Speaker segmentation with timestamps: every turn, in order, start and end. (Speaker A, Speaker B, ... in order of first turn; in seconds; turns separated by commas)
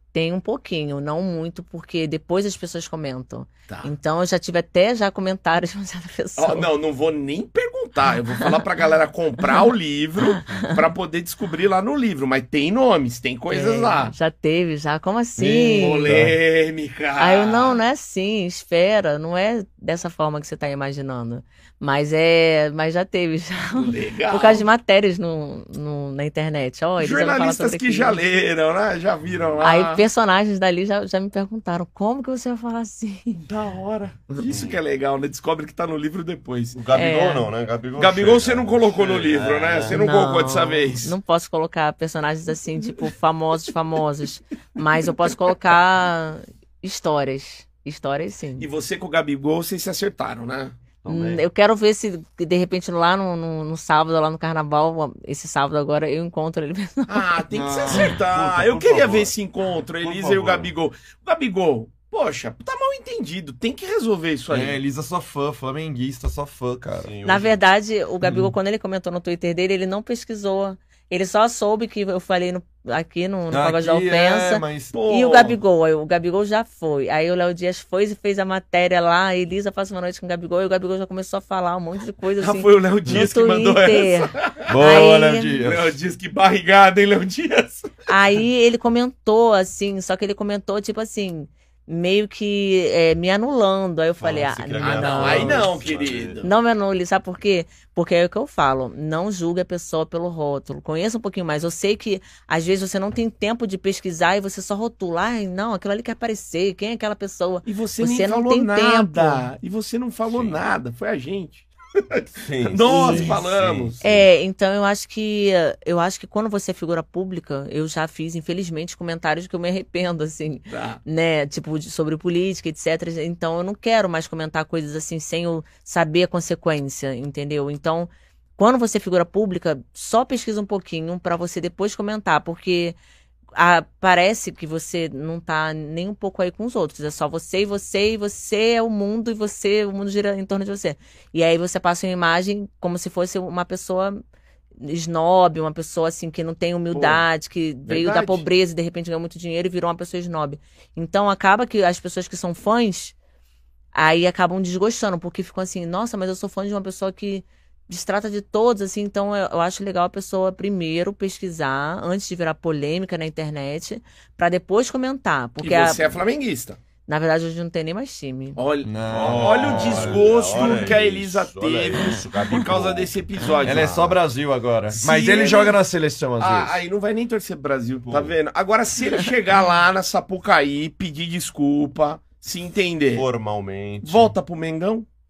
Speaker A: 0.1-6.7, Speaker B: 6.4-14.1, Speaker A: 10.3-10.6, Speaker A: 13.5-16.1, Speaker B: 15.4-17.8, Speaker C: 16.1-16.4, Speaker A: 17.2-28.2, Speaker B: 23.8-24.6, Speaker B: 27.0-30.0, Speaker D: 29.3-29.6, Speaker A: 29.6-33.4, Speaker B: 33.5-36.8, Speaker D: 34.5-34.8, Speaker D: 36.8-40.0, Speaker A: 36.9-37.5, Speaker B: 38.0-41.2, Speaker A: 39.9-48.7, Speaker B: 48.6-50.8, Speaker D: 51.0-51.4, Speaker A: 51.1-57.4, Speaker B: 57.1-64.8, Speaker C: 57.5-58.2, Speaker D: 57.9-59.3, Speaker D: 60.0-60.7, Speaker C: 64.5-67.1, Speaker D: 67.0-67.6, Speaker A: 67.2-85.5, Speaker C: 68.2-68.5, Speaker C: 73.5-75.0, Speaker B: 74.9-75.6, Speaker B: 82.4-84.7, Speaker C: 84.7-86.0, Speaker B: 85.6-87.9, Speaker A: 88.1-95.7, Speaker D: 94.2-96.4, Speaker B: 94.8-96.5, Speaker A: 96.4-109.4, Speaker B: 107.6-114.0, Speaker D: 110.3-110.6, Speaker D: 112.4-114.2, Speaker A: 113.0-113.4, Speaker A: 114.0-133.0, Speaker B: 120.7-121.0, Speaker A: 133.5-144.2, Speaker A: 144.8-153.1, Speaker B: 146.9-147.2, Speaker B: 147.8-148.4, Speaker A: 153.9-166.2, Speaker B: 165.6-166.8, Speaker A: 167.1-168.6, Speaker B: 168.6-174.0, Speaker C: 168.8-171.0, Speaker D: 169.1-174.2, Speaker C: 173.6-176.8, Speaker B: 174.9-175.8, Speaker B: 176.4-183.2, Speaker D: 178.1-178.3, Speaker D: 183.1-184.3, Speaker B: 184.0-185.1